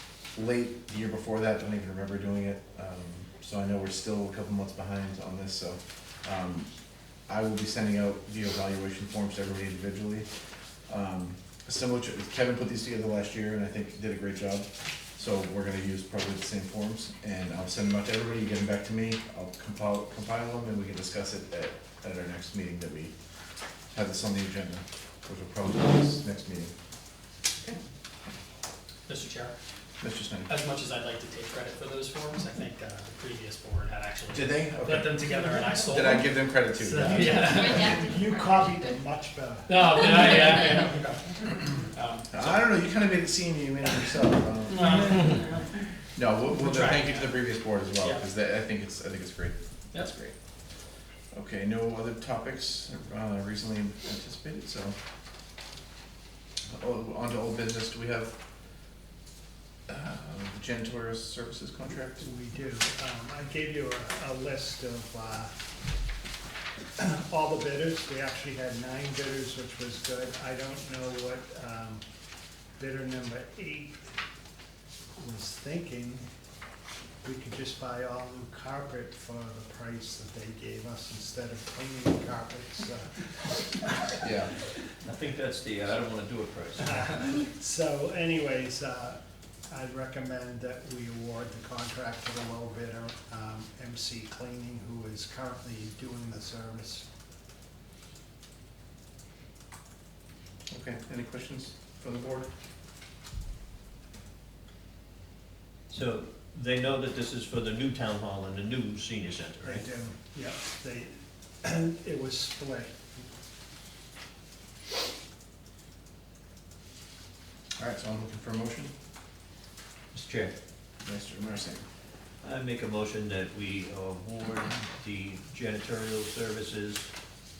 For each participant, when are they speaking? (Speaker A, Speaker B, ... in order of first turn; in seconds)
Speaker A: 0.3-6.7, 7.3-10.3, 10.9-23.1, 23.9-26.7, 30.0-30.5, 34.3-38.0, 42.3-45.5, 46.1-50.3, 51.3-55.0, 56.7-58.3, 59.9-62.2, 84.2-84.5, 100.7-102.5, 117.8-118.9, 121.0-121.8
Speaker B: 29.1-29.5, 30.5-37.8, 39.7-42.6, 44.7-45.4, 46.6-47.4
Speaker C: 37.1-39.9, 62.2-65.5, 67.0-72.0, 72.8-74.1, 75.2-76.2, 77.2-84.2, 86.8-97.0, 109.6-113.2
Speaker D: 85.0-87.1, 105.9-109.9, 120.1-120.5, 122.4-127.1